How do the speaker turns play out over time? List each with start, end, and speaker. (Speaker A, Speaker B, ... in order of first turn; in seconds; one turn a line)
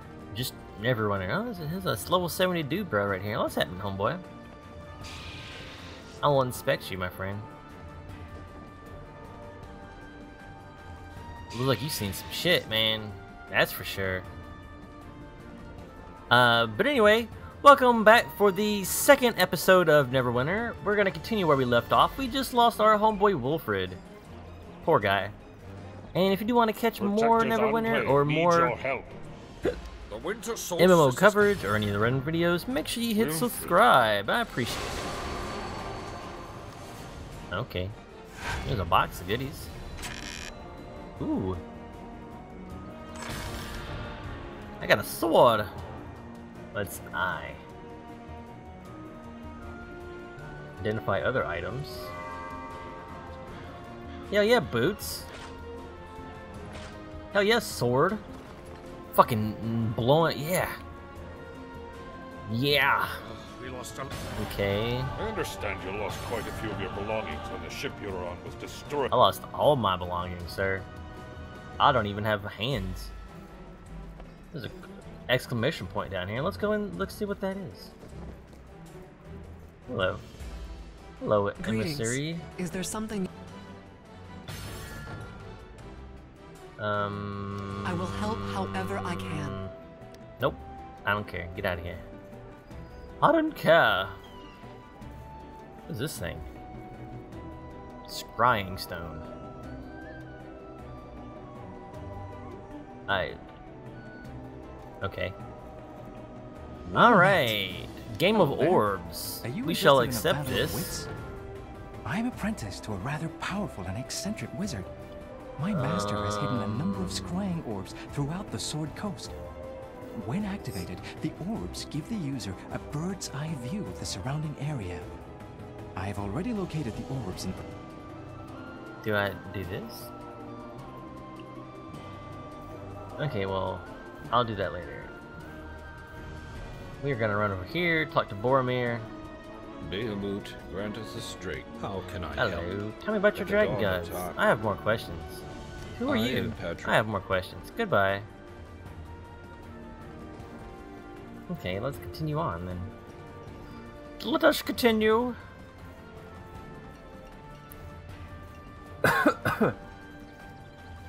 Speaker A: 0.3-4.2
Speaker A: 6.2-7.5
Speaker A: 11.5-14.3
Speaker A: 16.3-24.0
Speaker A: 24.8-25.4
Speaker A: 26.1-28.8
Speaker B: 27.0-29.2
Speaker C: 30.1-31.4
Speaker A: 30.8-35.1
Speaker B: 33.2-33.8
Speaker A: 37.5-38.0
Speaker A: 38.6-39.7
Speaker A: 41.2-41.6
Speaker A: 44.8-45.7
Speaker A: 46.7-47.6
Speaker A: 50.8-52.1
Speaker A: 54.3-55.3
Speaker A: 57.3-58.2
Speaker A: 59.1-60.8
Speaker A: 62.5-63.2
Speaker A: 64.4-65.1
Speaker B: 65.2-69.2
Speaker A: 69.1-70.9
Speaker A: 71.8-73.1
Speaker A: 74.5-77.9
Speaker A: 79.9-80.2
Speaker A: 81.2-82.5
Speaker D: 81.6-83.3
Speaker A: 86.8-88.3
Speaker D: 87.8-89.6
Speaker A: 88.9-89.7
Speaker A: 90.4-92.0
Speaker A: 93.2-94.2
Speaker A: 95.9-96.5
Speaker A: 98.1-99.3
Speaker A: 103.1-103.4
Speaker A: 105.0-105.4
Speaker A: 106.9-111.1
Speaker E: 106.9-107.6
Speaker E: 108.3-108.8
Speaker E: 109.4-111.1
Speaker E: 112.0-114.9
Speaker E: 115.6-119.3
Speaker A: 115.7-117.4
Speaker E: 120.2-125.1
Speaker E: 126.0-127.6
Speaker A: 129.0-130.1
Speaker A: 133.2-135.1
Speaker A: 137.0-139.1
Speaker C: 139.8-142.8
Speaker A: 142.4-148.3
Speaker C: 143.3-144.4
Speaker C: 146.1-147.0
Speaker A: 151.5-152.9
Speaker A: 154.2-155.4
Speaker A: 159.0-159.8